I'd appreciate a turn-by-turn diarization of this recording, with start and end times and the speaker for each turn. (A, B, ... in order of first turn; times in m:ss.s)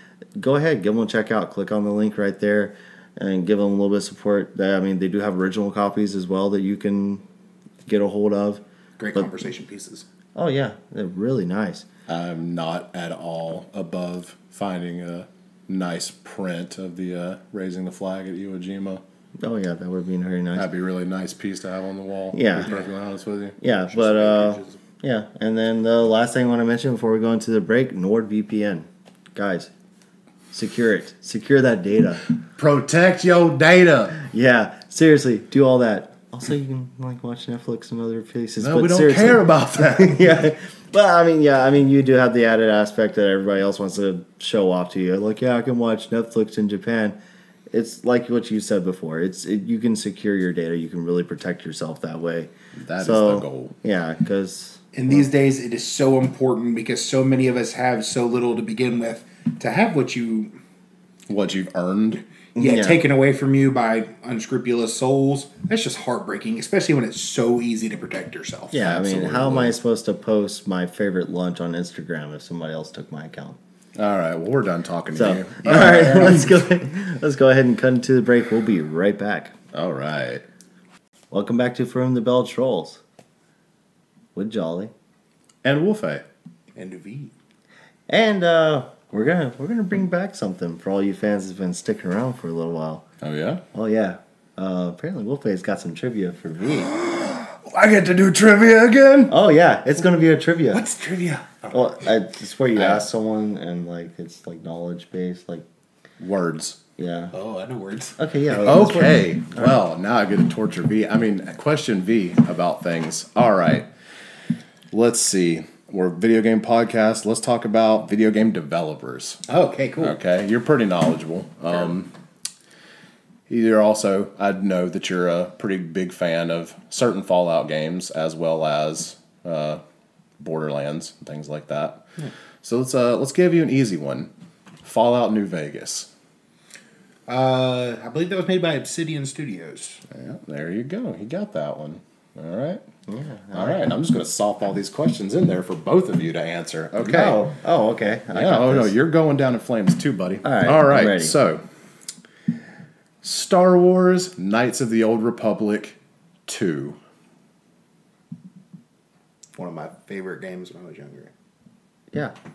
0:00.4-0:07.2 A
0:07.8-0:08.6 A
0:09.0-0:10.0 B
0:10.3-0:11.8 A
0:12.1-0:19.0 C
0:19.4-0:20.7 A
0:20.5-0:23.6 C
0:22.3-0:22.7 A
0:23.6-0:29.7 A
0:23.9-0:24.8 B
0:30.5-0:32.2 A
0:32.6-0:34.2 C
0:34.2-0:47.2 A
0:38.6-0:40.4 C
0:47.7-0:55.2 A
0:52.8-0:53.7 C
0:54.9-1:00.5 B
1:01.3-1:02.2 C
1:02.6-1:03.0 A
1:02.6-1:08.8 B
1:08.7-1:13.6 A
1:08.7-1:09.8 C
1:14.0-1:16.6 C
1:15.1-1:19.5 A
1:19.7-1:20.4 C
1:21.3-1:23.0 A
1:24.3-1:24.9 A
1:25.6-1:26.2 C
1:26.7-1:27.3 B
1:28.1-1:33.0 A
1:33.2-1:33.6 C
1:33.7-1:36.9 A
1:36.7-1:39.3 C
1:39.3-1:40.8 A
1:40.7-1:41.8 B
1:41.7-1:45.6 A
1:42.8-1:43.0 C
1:46.2-1:46.8 C
1:47.0-1:47.3 A
1:47.3-1:48.2 B
1:48.2-1:49.7 A
1:48.6-1:53.9 C
1:54.9-1:59.4 C
1:59.5-2:00.2 B
2:00.0-2:02.1 C
2:03.5-2:09.8 C
2:10.4-2:12.0 C
2:12.6-2:14.3 C
2:14.8-2:16.1 C
2:17.3-2:20.0 B
2:20.1-2:22.8 C
2:23.1-2:23.8 A
2:23.5-2:27.4 C
2:27.0-2:28.9 A
2:28.3-2:31.6 C
2:30.4-2:31.4 A
2:33.2-2:37.0 C
2:39.6-2:41.3 B